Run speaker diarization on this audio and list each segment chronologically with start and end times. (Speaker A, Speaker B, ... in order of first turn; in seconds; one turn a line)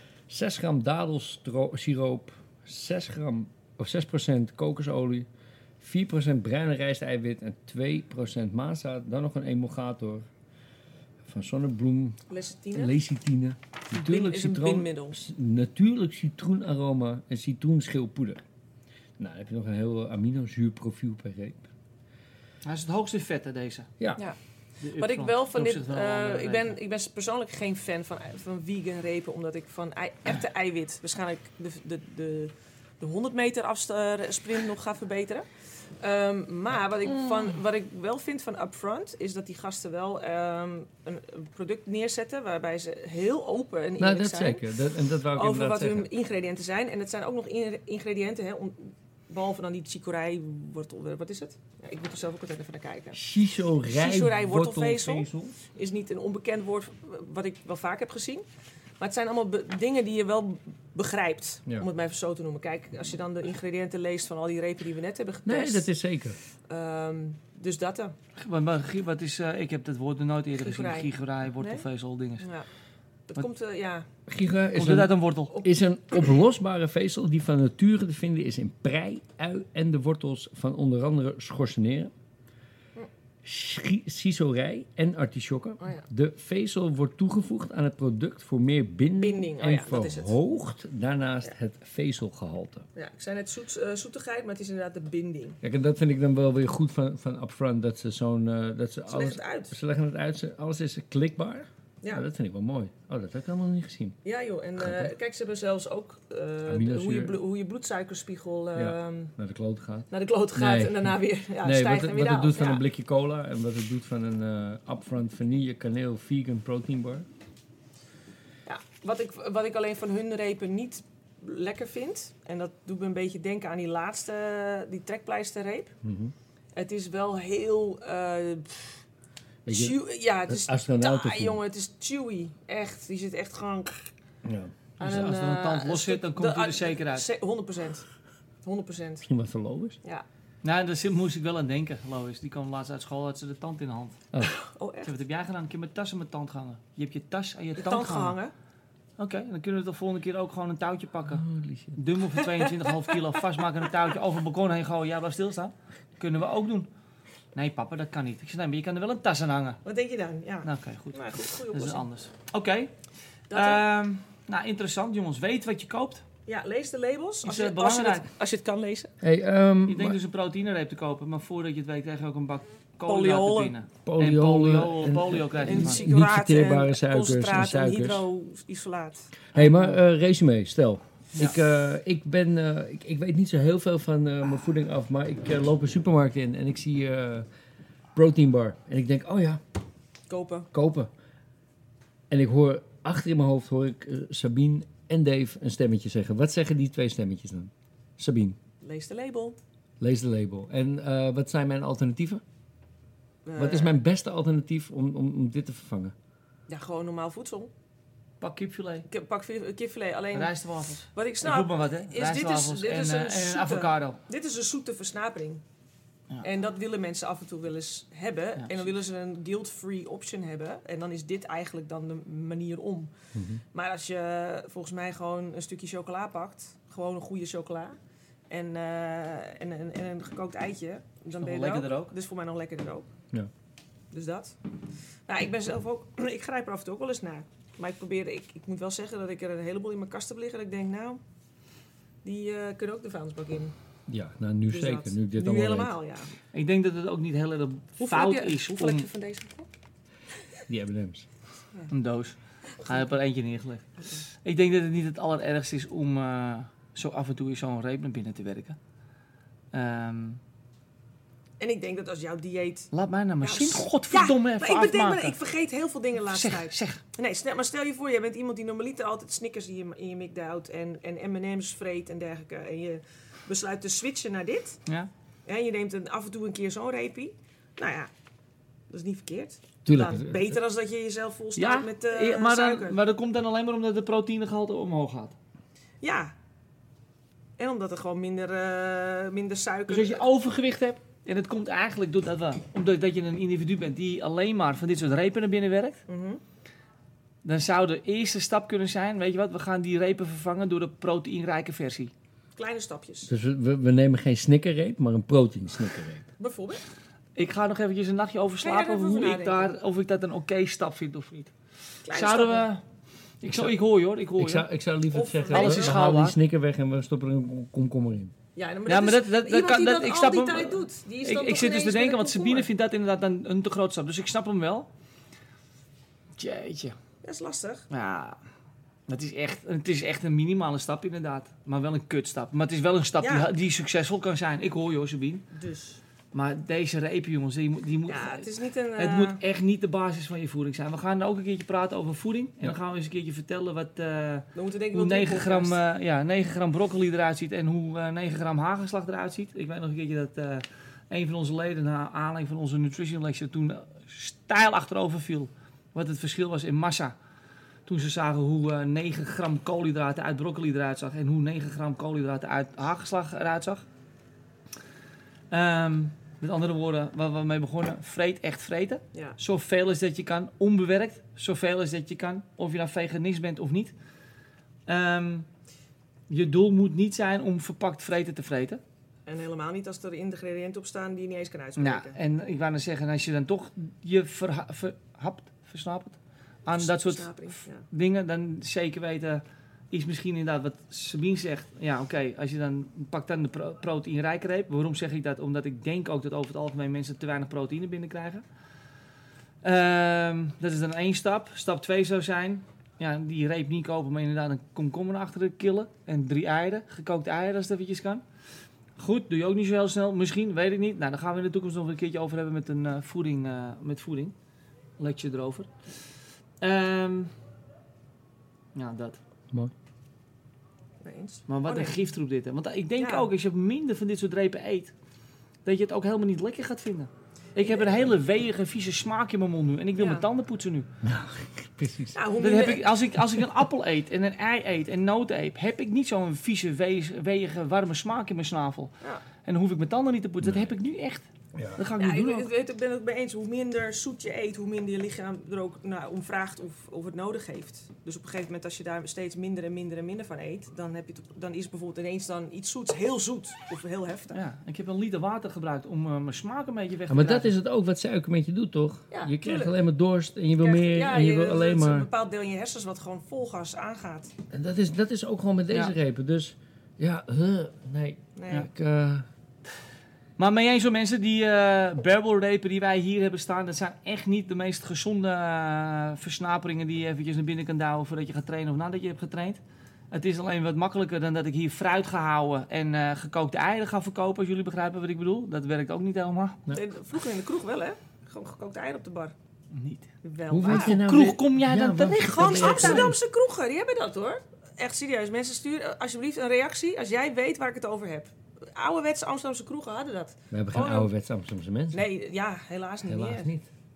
Speaker A: 0.3-5.3
Speaker A: 5.8-10.3
Speaker A: 11.2-12.2
Speaker B: 12.3-12.9
Speaker A: 12.7-18.4
Speaker B: 13.9-15.2
Speaker A: 19.2-21.7
Speaker C: 22.6-23.9
Speaker C: 24.8-26.7
Speaker B: 25.0-35.5
Speaker B: 36.0-44.6
Speaker A: 44.0-46.1
Speaker B: 45.3-53.2
Speaker A: 53.1-55.6
Speaker B: 53.9-58.4
Speaker B: 59.0-65.9
Speaker A: 65.4-66.4
Speaker B: 66.7-68.1
Speaker C: 68.4-72.5
Speaker B: 70.6-71.8
Speaker B: 72.4-72.7
Speaker B: 73.3-74.1
Speaker A: 74.3-82.1
Speaker C: 74.7-75.5
Speaker A: 83.4-92.8
Speaker B: 85.8-86.0
Speaker B: 89.2-90.3
Speaker B: 93.0-95.6
Speaker A: 95.6-104.2
Speaker B: 99.1-99.7
Speaker B: 104.2-109.3
Speaker A: 104.8-105.1
Speaker A: 106.7-107.3
Speaker A: 108.7-117.3
Speaker B: 110.1-112.8
Speaker B: 118.7-125.9
Speaker A: 126.0-126.3
Speaker B: 126.7-129.0
Speaker A: 129.7-131.6
Speaker B: 129.7-134.1
Speaker A: 134.4-134.7
Speaker B: 135.0-138.1
Speaker C: 135.0-137.3
Speaker B: 138.6-139.2
Speaker A: 139.2-140.0
Speaker C: 140.6-144.2
Speaker B: 144.4-145.1
Speaker C: 145.0-148.4
Speaker B: 147.7-148.5
Speaker C: 149.2-151.4
Speaker A: 151.3-152.0
Speaker C: 151.9-156.9
Speaker B: 152.5-153.2
Speaker C: 157.5-159.8
Speaker B: 159.8-162.1
Speaker C: 160.6-162.9
Speaker B: 163.5-163.8
Speaker C: 163.5-166.2
Speaker B: 166.4-169.1
Speaker C: 167.4-168.3
Speaker A: 169.2-170.2
Speaker C: 169.9-176.0
Speaker B: 173.1-173.7
Speaker A: 174.0-178.2
Speaker B: 175.6-179.4
Speaker A: 179.5-187.5
Speaker C: 179.5-180.0
Speaker A: 188.1-189.6
Speaker B: 190.3-190.7
Speaker A: 190.7-191.1
Speaker A: 192.3-198.6
Speaker B: 198.8-199.6
Speaker A: 200.0-202.4
Speaker B: 203.4-204.0
Speaker A: 203.6-206.1
Speaker B: 206.7-207.7
Speaker C: 208.4-209.1
Speaker B: 209.1-215.6
Speaker C: 210.3-214.2
Speaker B: 216.4-223.1
Speaker C: 218.6-218.8
Speaker A: 223.3-223.6
Speaker B: 223.7-228.0
Speaker B: 228.5-233.1
Speaker C: 231.4-232.1
Speaker B: 234.1-234.6
Speaker B: 235.3-241.2
Speaker B: 242.2-243.7
Speaker A: 244.1-245.9
Speaker B: 244.7-246.3
Speaker C: 246.5-249.1
Speaker B: 248.0-249.7
Speaker A: 250.7-251.3
Speaker C: 251.9-258.8
Speaker C: 259.7-260.4
Speaker B: 261.6-274.8
Speaker C: 262.9-265.4
Speaker C: 266.2-267.0
Speaker B: 275.4-278.1
Speaker B: 278.9-283.0
Speaker A: 279.8-280.6
Speaker C: 281.6-285.3
Speaker B: 286.0-286.3
Speaker B: 287.6-290.2
Speaker C: 289.9-296.0
Speaker B: 296.1-296.4
Speaker C: 297.4-302.1
Speaker B: 302.6-303.3
Speaker A: 303.3-306.3
Speaker B: 306.4-306.8
Speaker C: 307.4-311.5
Speaker B: 308.6-309.8
Speaker B: 312.1-312.7
Speaker C: 312.1-312.8
Speaker C: 313.4-314.6
Speaker A: 314.4-318.3
Speaker B: 315.1-316.1
Speaker C: 315.5-316.4
Speaker B: 318.6-322.7
Speaker C: 318.9-324.9
Speaker C: 326.4-326.9
Speaker B: 327.2-327.9
Speaker C: 327.9-328.4
Speaker C: 329.1-335.4
Speaker B: 333.2-333.5
Speaker B: 335.5-336.0
Speaker C: 336.3-357.1
Speaker B: 338.1-339.4
Speaker B: 344.5-345.8
Speaker C: 357.9-363.8
Speaker C: 365.5-373.9
Speaker C: 374.9-375.5
Speaker C: 376.3-378.8
Speaker B: 379.3-382.2
Speaker C: 381.8-398.4
Speaker B: 386.7-387.8
Speaker C: 399.6-408.2
Speaker C: 409.0-414.3
Speaker C: 415.0-415.9
Speaker C: 416.6-417.3
Speaker C: 418.7-419.2
Speaker B: 421.0-422.0
Speaker C: 421.5-424.9
Speaker B: 423.0-423.3
Speaker C: 425.6-430.9
Speaker B: 427.6-428.1
Speaker B: 430.0-430.2
Speaker A: 431.0-432.2
Speaker B: 432.1-432.9
Speaker C: 432.4-442.5
Speaker A: 440.4-440.7
Speaker A: 441.5-441.8
Speaker B: 442.0-454.4
Speaker C: 454.3-457.5
Speaker A: 457.1-462.1
Speaker B: 459.1-459.8
Speaker B: 460.6-464.3
Speaker A: 464.5-469.3
Speaker B: 468.4-468.7
Speaker C: 470.4-479.6
Speaker C: 480.1-486.6
Speaker B: 486.7-489.3
Speaker C: 489.7-490.1
Speaker B: 490.2-491.0
Speaker A: 490.5-493.2
Speaker C: 490.6-493.1
Speaker B: 492.2-501.1
Speaker A: 500.5-502.0
Speaker B: 501.9-503.5
Speaker A: 503.0-503.7